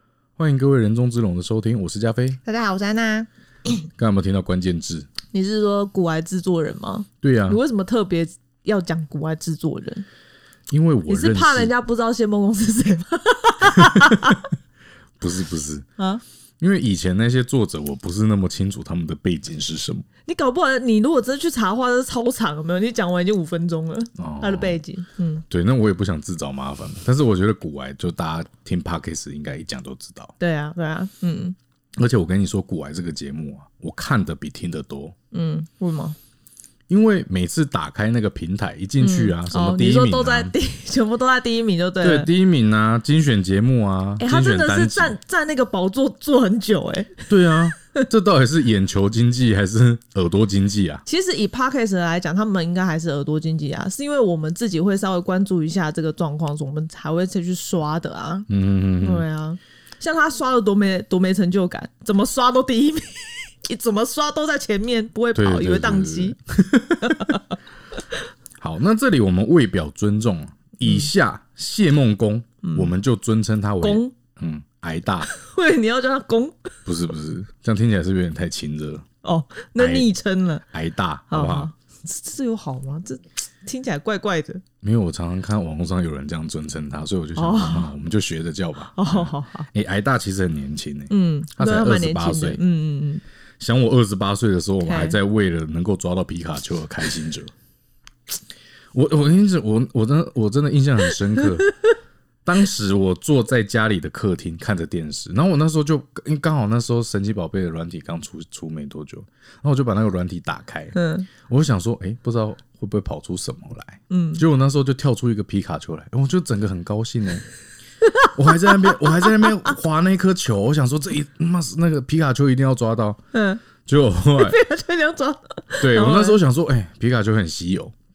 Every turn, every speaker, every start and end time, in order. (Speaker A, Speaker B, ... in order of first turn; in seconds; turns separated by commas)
Speaker A: 0.4-2.4, Speaker B: 2.4-3.3, Speaker A: 4.0-5.1, Speaker B: 5.3-10.1, Speaker A: 7.2-7.6, Speaker A: 10.7-11.7, Speaker B: 11.1-14.4, Speaker A: 13.7-14.4, Speaker A: 15.2-15.8, Speaker A: 16.6-20.1, Speaker B: 20.2-25.4, Speaker A: 24.2-24.8, Speaker A: 25.5-30.3, Speaker B: 30.4-31.6, Speaker A: 32.0-35.1, Speaker B: 35.3-36.2, Speaker A: 36.9-40.5, Speaker B: 39.0-42.3, Speaker A: 42.0-45.1, Speaker B: 44.2-48.0, Speaker A: 47.3-51.0, Speaker B: 51.0-58.5, Speaker A: 58.5-59.2, Speaker B: 59.0-66.4, Speaker A: 65.3-67.4, Speaker B: 67.0-67.5, Speaker A: 68.6-75.3, Speaker B: 70.8-71.1, Speaker B: 72.6-72.9, Speaker B: 73.8-74.1, Speaker B: 75.3-76.7, Speaker A: 76.8-79.0, Speaker B: 79.2-80.6, Speaker A: 79.8-80.1, Speaker A: 80.7-81.7, Speaker B: 81.3-84.6, Speaker A: 84.8-92.6, Speaker B: 87.3-87.9, Speaker B: 88.9-89.7, Speaker B: 91.1-93.2, Speaker A: 93.6-97.5, Speaker B: 94.8-95.2, Speaker A: 98.9-101.7, Speaker B: 101.3-101.9, Speaker A: 102.4-117.4, Speaker B: 110.9-111.3, Speaker B: 114.1-114.4, Speaker B: 118.0-119.7, Speaker A: 118.3-123.2, Speaker B: 123.3-123.6, Speaker A: 123.8-124.6, Speaker B: 124.3-126.4, Speaker A: 125.8-127.9